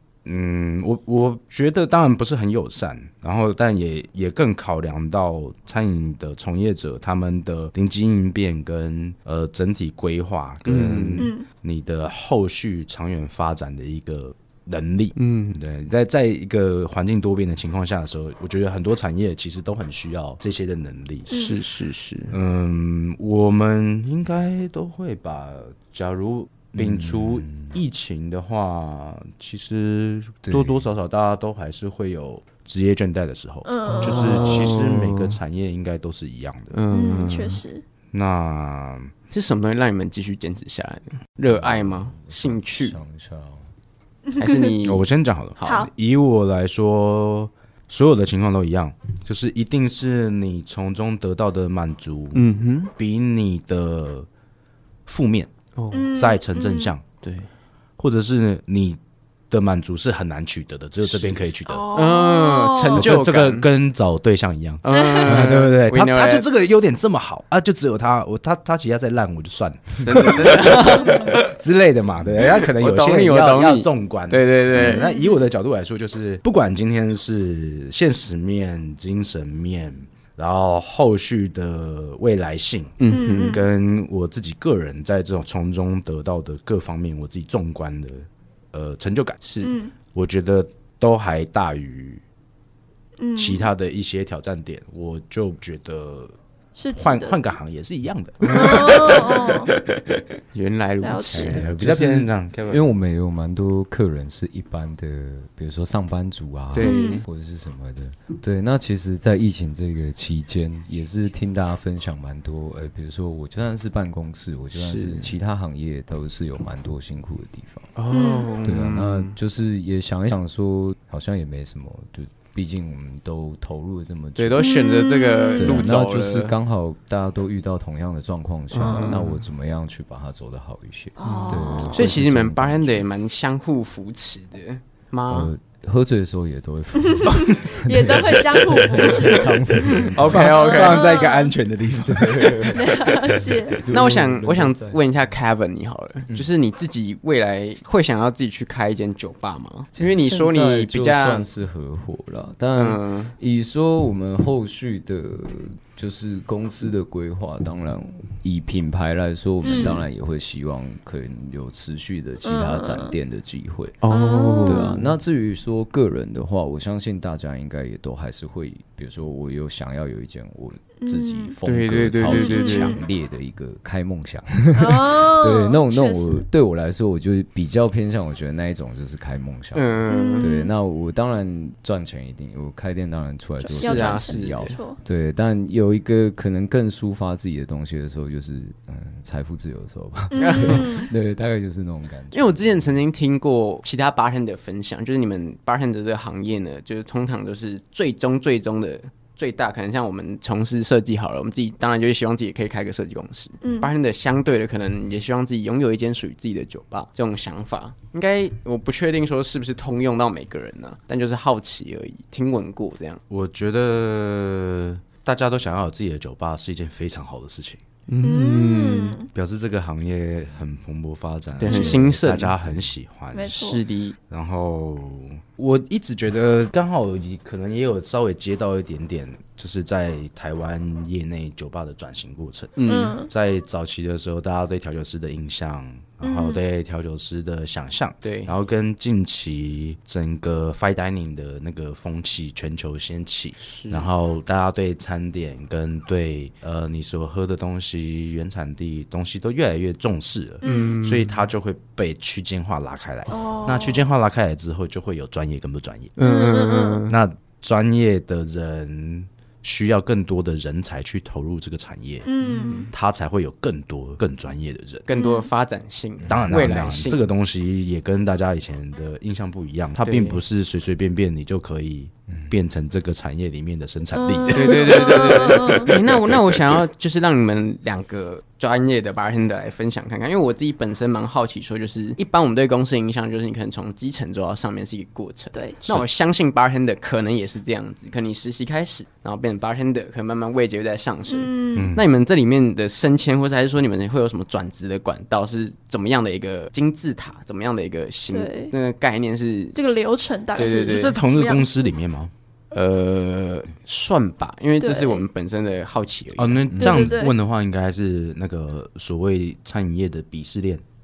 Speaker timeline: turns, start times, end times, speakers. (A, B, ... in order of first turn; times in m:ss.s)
0:00.2-0:21.3 A
0:10.6-0:11.3 B
0:11.2-0:11.4 C
0:15.2-0:15.6 B
0:21.3-0:21.5 C
0:21.3-0:22.4 B
0:22.3-0:36.8 A
0:26.8-0:27.8 D
0:30.4-0:30.9 D
0:33.6-0:34.7 C
0:33.9-0:35.4 B
0:36.7-0:37.6 B
0:36.9-0:37.8 C
0:38.1-0:39.1 A
0:39.3-0:43.0 B
0:41.5-0:43.7 D
0:44.3-0:44.7 C
0:44.4-0:45.1 B
0:44.8-0:52.4 A
0:45.6-0:45.9 B
0:52.3-0:52.9 B
0:53.0-0:54.3 A
0:55.1-0:55.5 A
0:55.8-0:56.1 B
0:55.9-0:56.9 C
0:56.1-0:57.0 A
0:57.2-0:57.5 B
0:58.0-0:59.0 A
0:59.5-1:01.9 A
1:01.0-1:03.7 B
1:01.7-1:03.0 C
1:02.9-1:29.4 A
1:04.8-1:06.4 B
1:04.9-1:05.4 C
1:10.0-1:11.4 B
1:10.9-1:11.3 C
1:12.4-1:15.1 B
1:14.8-1:15.4 C
1:23.0-1:23.6 B
1:23.1-1:23.6 C
1:29.4-1:29.7 B
1:29.6-1:29.9 C
1:30.1-1:32.2 A
1:33.2-1:33.7 C
1:33.4-1:36.4 A
1:36.8-1:37.4 C
1:36.9-1:40.2 A
1:38.4-1:39.2 B
1:38.5-1:39.7 C
1:40.5-1:42.3 B
1:41.0-1:41.6 C
1:41.3-1:42.9 A
1:41.4-1:41.8 D
1:42.7-1:57.9 D
1:46.7-1:47.2 B
1:46.8-1:47.2 C
1:54.7-1:55.3 B
1:58.0-1:59.4 B
1:58.1-1:58.5 C
1:58.6-2:04.7 D
2:04.4-2:06.5 B
2:04.6-2:05.9 C
2:05.6-2:13.1 D
2:08.7-2:09.4 B
2:11.2-2:12.0 C
2:11.2-2:15.5 B
2:15.3-2:20.7 D
2:17.2-2:19.9 C
2:18.8-2:19.3 A
2:20.0-2:21.1 B
2:20.1-2:24.2 A
2:20.5-2:21.5 C
2:22.0-2:25.0 D
2:22.7-2:23.8 C
2:23.9-2:31.5 B
2:29.9-2:44.0 D
2:32.8-2:33.3 B
2:39.6-2:39.9 C
2:39.7-2:40.0 B
2:42.4-2:43.1 C
2:44.0-2:45.0 B
2:44.1-2:45.0 C
2:44.6-2:59.9 D
2:51.0-2:51.6 C
2:51.6-2:53.0 B
2:52.2-2:53.0 C
2:54.8-2:56.4 C
2:59.7-3:00.5 B
3:00.1-3:00.7 C
3:00.4-3:12.9 D
3:03.6-3:05.0 C
3:03.7-3:04.8 B
3:10.3-3:11.1 C
3:10.4-3:11.1 B
3:12.3-3:33.2 B
3:23.6-3:23.9 C
3:33.3-3:37.8 A
3:38.1-3:39.2 B
3:38.2-3:39.3 C
3:39.3-3:43.6 A
3:41.6-3:42.5 B
3:43.3-3:43.8 C
3:43.4-3:44.2 B
3:44.3-4:16.1 A
3:52.8-3:53.2 B
3:52.9-3:53.3 C
3:56.2-3:56.6 C
3:58.2-3:58.5 B
4:03.6-4:04.1 B
4:10.6-4:10.9 C
4:10.6-4:11.4 B
4:13.3-4:14.0 C
4:16.2-4:17.1 B
4:16.2-4:17.0 C
4:17.1-4:22.3 A
4:22.2-4:22.9 C
4:22.4-4:22.9 B
4:22.9-4:25.1 A
4:25.1-4:27.2 B
4:25.1-4:25.5 C
4:26.3-4:36.8 A
4:30.0-4:30.4 B
4:34.1-4:35.9 C
4:34.5-4:59.8 B
4:45.5-4:45.8 C
4:51.3-4:52.0 C
4:51.7-4:52.0 A
4:58.3-4:58.7 C
4:59.7-5:01.9 C
5:00.5-5:01.2 B
5:00.6-5:02.3 A
5:02.7-5:06.6 B
5:04.8-5:05.2 C
5:06.4-5:10.8 A
5:06.7-5:07.2 D
5:06.8-5:07.4 C